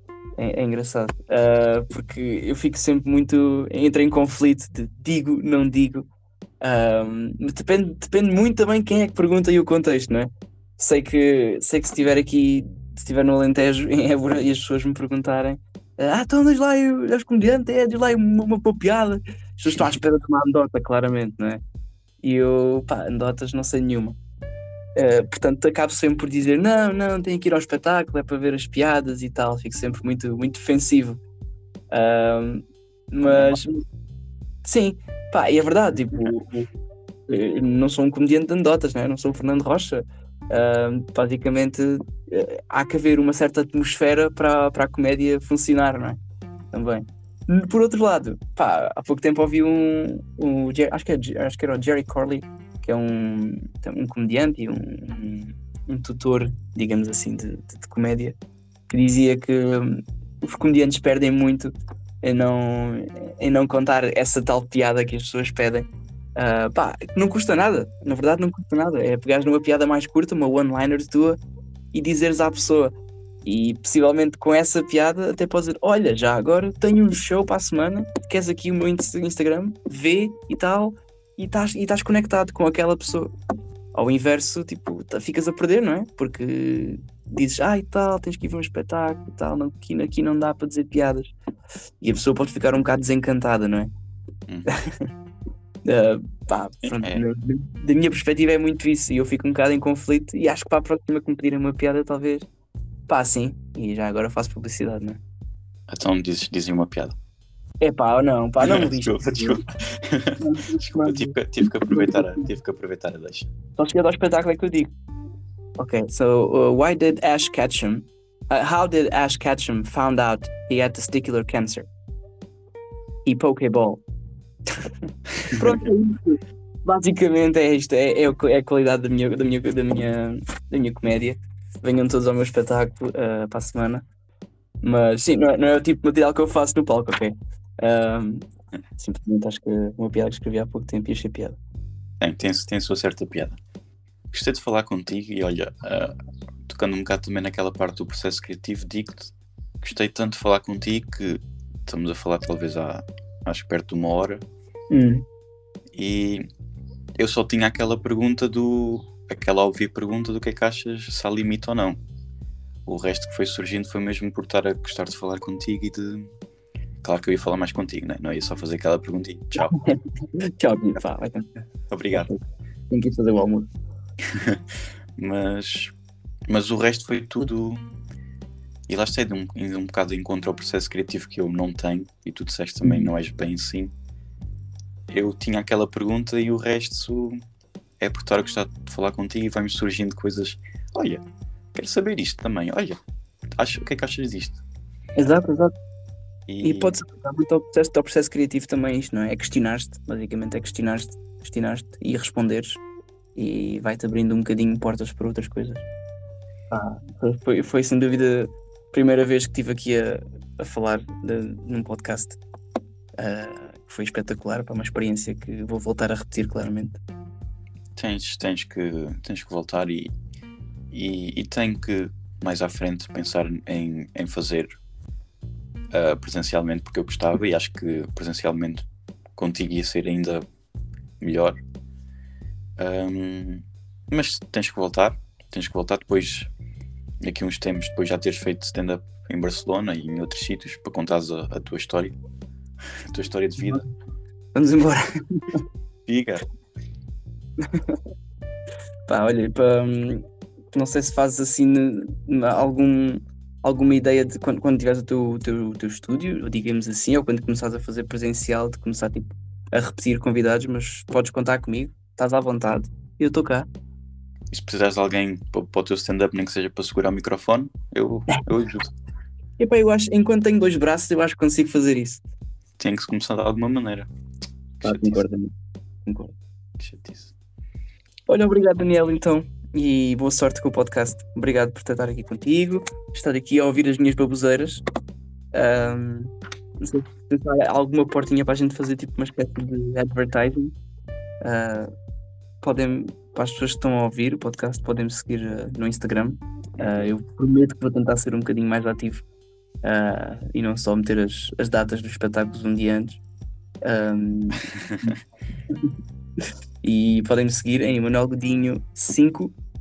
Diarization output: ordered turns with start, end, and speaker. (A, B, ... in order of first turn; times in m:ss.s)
0:00.4-0:06.1 A
0:06.6-0:21.6 A
0:22.2-0:24.2 A
0:25.0-0:31.2 A
0:31.9-0:33.8 A
0:33.3-0:33.6 B
0:34.6-0:36.7 A
0:37.3-0:46.2 A
0:46.7-0:58.4 A
0:58.9-1:11.4 A
1:11.9-1:23.3 A
1:23.9-1:31.3 A
1:32.0-1:33.9 A
1:34.5-1:34.8 B
1:35.8-1:42.5 A
1:36.9-1:37.2 B
1:43.1-1:45.2 A
1:45.9-1:47.2 B
1:47.8-1:49.6 A
1:48.6-1:53.5 B
1:50.4-1:52.5 A
1:53.8-1:54.9 A
1:55.8-2:01.9 A
2:03.2-2:04.0 A
2:05.4-2:14.1 A
2:14.8-2:18.4 A
2:19.0-2:21.6 A
2:22.2-2:23.6 B
2:24.3-2:26.1 B
2:26.7-2:34.4 B
2:34.9-2:35.2 A
2:35.9-2:36.5 B
2:37.2-2:42.0 B
2:42.9-2:46.3 B
2:47.0-2:49.8 B
2:49.6-2:51.6 A
2:51.9-2:52.3 B
2:52.1-2:52.4 A
2:52.9-2:53.7 A
2:54.3-2:54.6 B
2:55.2-2:55.9 B
2:56.5-2:57.8 B
2:58.9-3:03.9 B
3:05.1-3:07.4 B
3:08.0-3:13.0 B
3:13.6-3:14.6 B
3:15.2-3:15.7 A
3:16.5-3:17.0 B
3:16.6-3:22.8 A
3:23.4-3:25.8 A
3:26.7-3:32.4 A
3:33.2-3:37.0 A
3:38.0-3:40.1 B
3:40.9-3:44.8 B
3:45.9-3:50.4 B
3:51.2-3:51.6 B
3:52.8-3:56.5 B
3:57.2-4:02.2 B
4:03.1-4:03.8 B
4:04.6-4:05.6 A
4:06.1-4:06.4 B
4:07.6-4:08.0 A
4:09.1-4:23.7 A
4:24.5-4:28.9 B
4:29.6-4:32.2 A
4:32.8-4:34.1 B
4:34.8-4:35.3 B
4:34.8-4:35.5 A
4:36.1-4:36.4 A
4:36.8-4:37.3 B
4:38.3-4:44.8 A
4:45.5-4:50.7 A
4:51.4-4:51.9 A
4:52.6-4:59.2 A
4:56.8-4:57.1 B
4:59.8-5:03.2 A
5:03.8-5:05.2 A
5:04.8-5:05.1 B
5:05.7-5:05.9 A
5:06.8-5:09.6 A